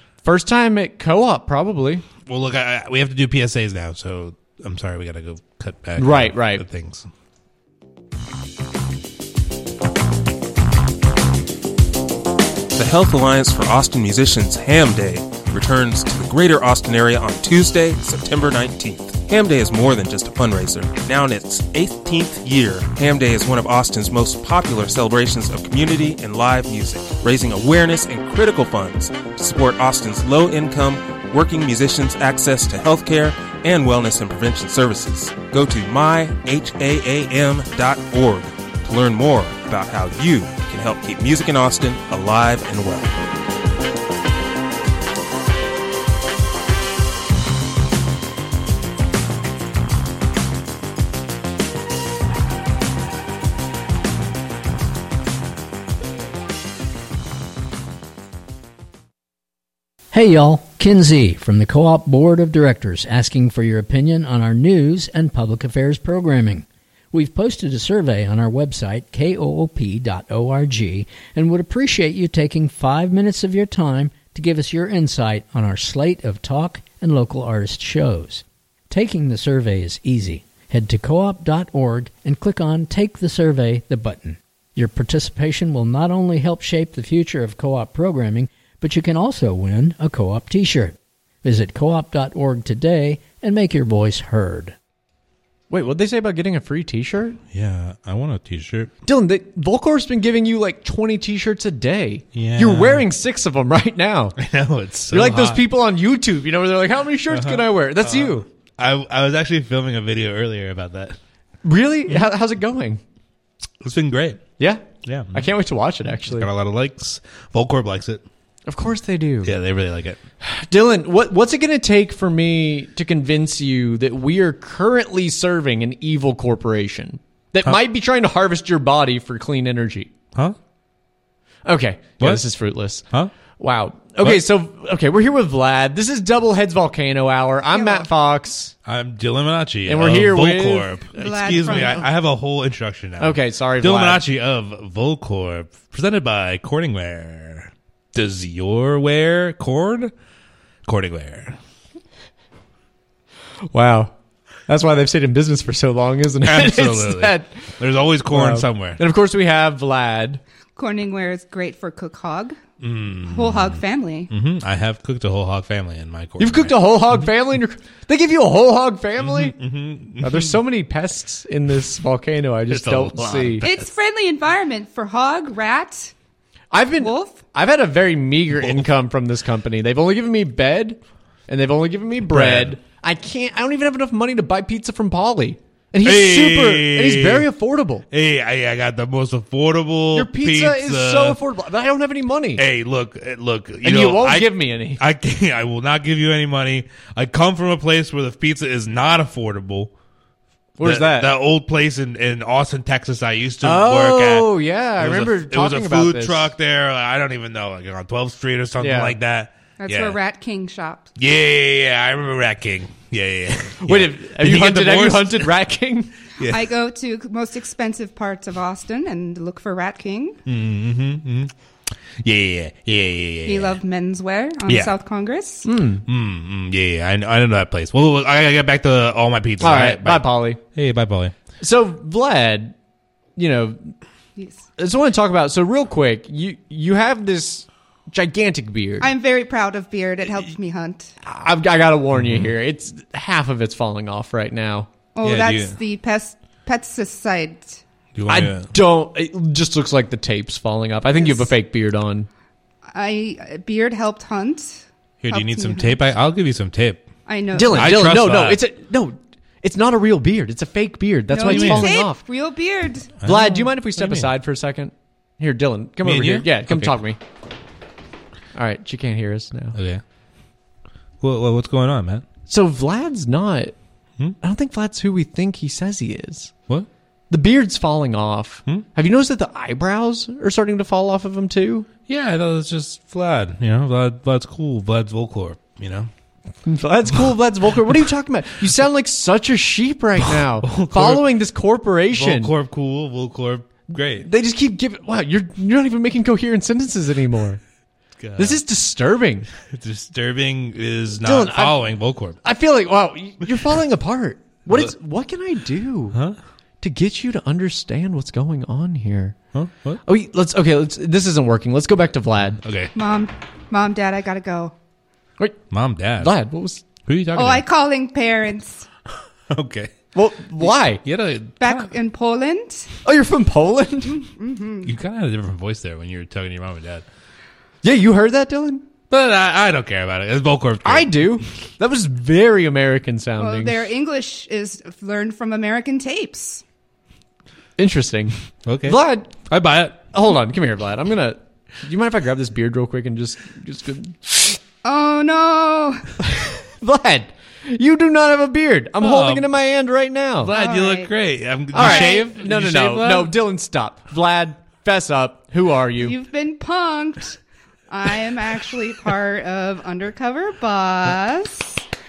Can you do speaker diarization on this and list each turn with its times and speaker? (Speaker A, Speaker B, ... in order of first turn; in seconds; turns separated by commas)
Speaker A: 0.2-2.0, Speaker B: 2.2-7.1, Speaker A: 6.0-6.6, Speaker C: 12.7-43.2, Speaker D: 60.1-94.7, Speaker A: 95.7-97.4, Speaker B: 97.5-98.9, Speaker A: 99.0-104.3, Speaker B: 102.3-103.0, Speaker B: 104.4-105.6, Speaker A: 105.1-108.4, Speaker B: 107.3-111.2, Speaker A: 111.6-113.0, Speaker B: 113.8-114.4, Speaker A: 114.6-116.5, Speaker B: 115.0-115.5, Speaker B: 116.2-118.2, Speaker A: 118.7-119.5, Speaker B: 119.4-120.2, Speaker A: 120.4-130.1, Speaker A: 131.6-133.0, Speaker B: 132.2-132.4, Speaker A: 133.6-138.7, Speaker E: 137.7-138.1, Speaker B: 138.8-150.1, Speaker A: 139.8-140.9, Speaker E: 141.2-142.1, Speaker A: 141.6-142.0, Speaker A: 143.2-144.2, Speaker B: 150.8-151.6, Speaker A: 153.7-154.1, Speaker A: 154.7-157.5, Speaker B: 156.4-159.0, Speaker A: 158.3-160.4, Speaker E: 160.8-162.6, Speaker B: 162.8-166.8, Speaker E: 163.2-164.3, Speaker A: 166.4-169.6, Speaker B: 169.2-170.6, Speaker A: 170.2-173.7, Speaker B: 172.7-173.9, Speaker E: 173.6-176.1, Speaker A: 176.7-188.0, Speaker E: 177.0-177.4, Speaker B: 182.2-182.8, Speaker B: 186.0-187.5, Speaker B: 188.1-191.4, Speaker A: 190.1-192.6, Speaker B: 192.6-199.9, Speaker A: 193.8-195.0, Speaker A: 200.8-201.3, Speaker B: 200.8-210.2, Speaker A: 203.6-206.5, Speaker A: 208.8-209.2, Speaker E: 209.8-211.1, Speaker B: 211.2-215.5, Speaker A: 213.8-216.1, Speaker B: 216.4-216.7, Speaker E: 216.4-220.4, Speaker B: 220.4-221.5, Speaker B: 222.2-223.8, Speaker E: 223.4-225.7, Speaker B: 224.7-224.9, Speaker A: 225.6-226.0, Speaker B: 226.1-231.3, Speaker A: 229.6-230.6, Speaker A: 231.6-232.7, Speaker A: 233.3-233.9, Speaker E: 234.3-234.6, Speaker A: 234.8-239.1, Speaker E: 239.0-241.1, Speaker A: 241.2-244.9, Speaker B: 242.1-242.5, Speaker E: 245.1-247.8, Speaker B: 245.2-245.8, Speaker B: 248.1-248.7, Speaker A: 248.3-252.3, Speaker E: 251.1-251.5, Speaker E: 252.9-256.0, Speaker B: 255.2-257.1, Speaker E: 257.3-258.0, Speaker A: 257.5-262.2, Speaker B: 257.7-258.6, Speaker E: 261.3-263.1, Speaker B: 261.4-261.9, Speaker B: 263.2-264.3, Speaker A: 263.2-267.2, Speaker B: 266.0-267.0, Speaker A: 268.5-269.8, Speaker B: 269.7-270.0, Speaker B: 271.2-272.2, Speaker A: 272.5-273.8, Speaker A: 274.4-276.5, Speaker A: 277.3-281.9, Speaker B: 282.1-286.1, Speaker A: 286.6-292.5, Speaker B: 290.2-291.3, Speaker B: 292.1-294.3, Speaker A: 294.1-297.6, Speaker B: 298.2-298.6, Speaker A: 298.4-299.5, Speaker B: 299.6-302.4, Speaker A: 301.2-301.9, Speaker A: 302.4-306.2, Speaker B: 306.1-306.4, Speaker A: 306.8-309.4, Speaker B: 309.5-310.0, Speaker A: 310.0-312.6, Speaker B: 312.6-312.9, Speaker E: 312.9-314.7, Speaker B: 315.7-316.3, Speaker A: 316.2-316.8, Speaker B: 317.0-317.6, Speaker E: 317.3-318.9, Speaker B: 319.5-319.9, Speaker A: 320.1-321.0, Speaker B: 320.6-321.9, Speaker E: 321.6-322.9, Speaker A: 323.0-324.2, Speaker E: 324.1-324.9, Speaker B: 324.8-327.1, Speaker A: 327.8-328.8, Speaker B: 329.1-331.4, Speaker A: 330.8-333.8, Speaker E: 333.4-336.6, Speaker A: 337.8-339.3, Speaker B: 338.6-340.0, Speaker A: 340.1-344.2, Speaker E: 344.8-346.1, Speaker A: 346.2-350.5, Speaker B: 349.0-349.5, Speaker B: 350.4-353.3, Speaker E: 350.5-351.1, Speaker A: 351.7-356.1, Speaker E: 351.8-352.2, Speaker E: 356.0-357.4, Speaker E: 357.9-361.8